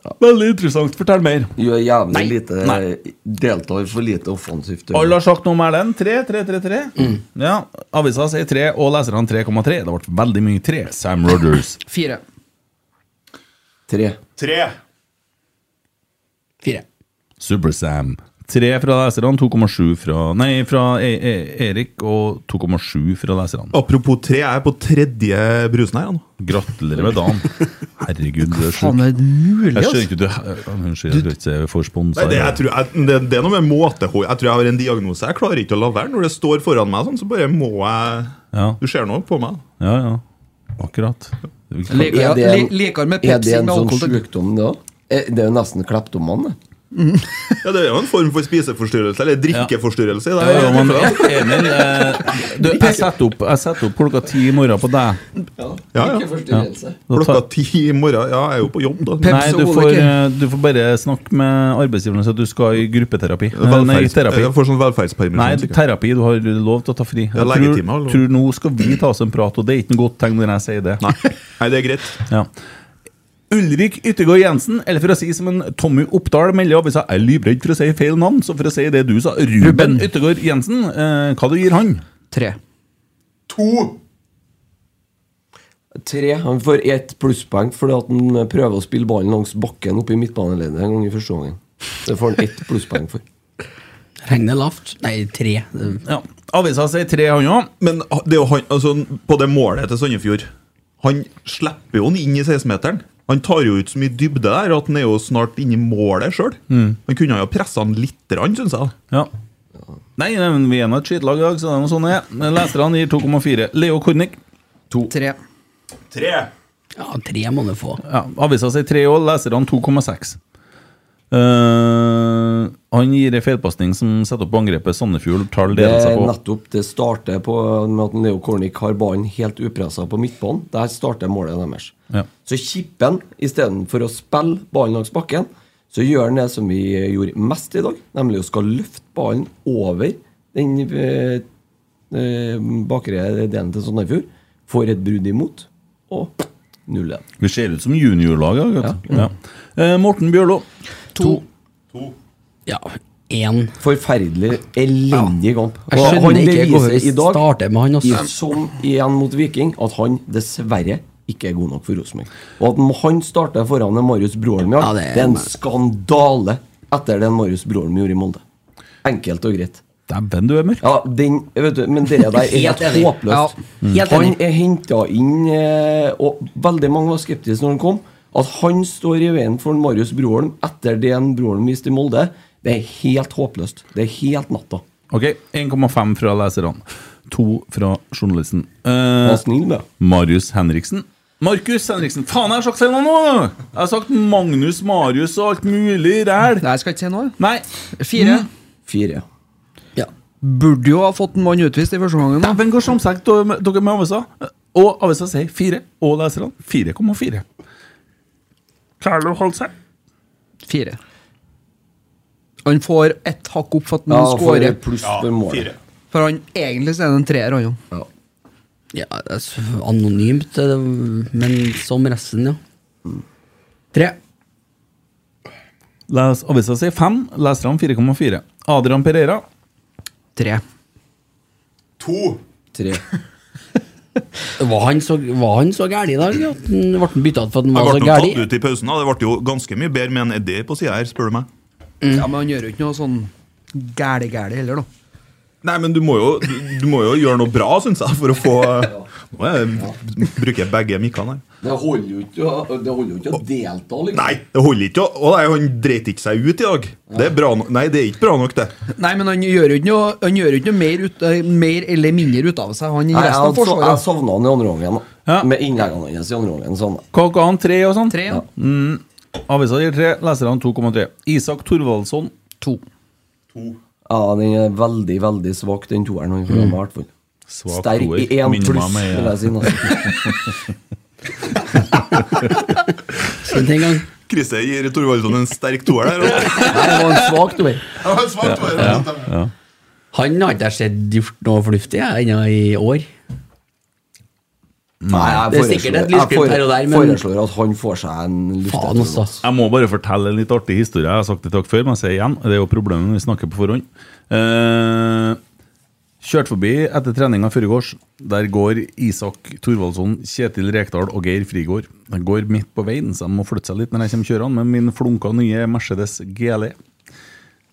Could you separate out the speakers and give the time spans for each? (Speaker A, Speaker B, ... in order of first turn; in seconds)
Speaker A: 0.2-1.5, 4.9-11.8, 17.4-23.7, 26.4-29.0, 29.7-32.6, 38.5-38.8, 39.8-40.2, 40.8-42.1, 50.4-55.2, 56.5-57.4, 59.2-64.5, 65.3-71.0, 73.5-82.0, 96.0-97.7, 106.7-107.0, 110.2-114.4, 118.0-120.4, 121.3-126.3, 147.4-150.6, 170.1-170.9, 185.1-189.4, 190.0-196.7, 197.4-197.6, 198.2-198.5, 202.4-207.4, 209.0-209.7, 226.1-229.4, 267.1-272.3, 277.5-280.6, 288.4-289.5, 295.0-295.4, 299.4-305.4, 306.2-316.8
Speaker B: 1.6-5.2, 13.9-14.2, 42.0-46.6, 55.6-57.0, 85.9-93.2, 125.7-141.4, 142.1-147.2, 153.8-157.4, 158.0-168.4, 169.0-169.8, 170.8-184.8, 189.2-189.8, 198.8-199.2, 214.1-215.7, 232.7-233.0, 251.6-254.4, 263.1-267.1, 274.1-277.1, 277.7-280.0, 286.7-287.6, 295.1-299.4
Speaker C: 11.8-12.2, 28.5-30.1, 41.9-44.2, 46.9-47.5, 50.5-53.1, 59.2-60.1, 79.6-80.1, 82.3-82.6, 115.1-115.4, 151.1-151.4, 196.6-197.4, 198.0-198.5, 200.4-202.6, 210.7-211.0, 212.6-214.8, 216.1-217.8, 230.3-230.6, 242.1-244.9, 258.9-264.0, 268.1-268.4
Speaker D: 14.4-14.8, 23.7-26.3, 32.1-39.6, 47.6-51.4, 55.9-56.3, 57.1-59.4, 63.5-65.8, 67.3-68.3, 71.0-72.2, 83.5-84.0, 97.8-100.5, 101.0-109.0, 116.1-116.5, 215.0-215.8, 232.0-232.4, 237.7-241.5, 245.6-251.4, 254.1-258.7, 284.3-287.0, 287.9-289.3
Speaker E: 94.2-96.0, 117.0-118.0, 152.7-153.7, 155.9-158.2, 164.8-165.5, 172.4-173.2, 173.9-174.3, 218.9-222.6, 234.6-238.4, 283.4-284.0, 286.7-287.8, 290.1-293.1, 295.5-297.2, 298.7-299.3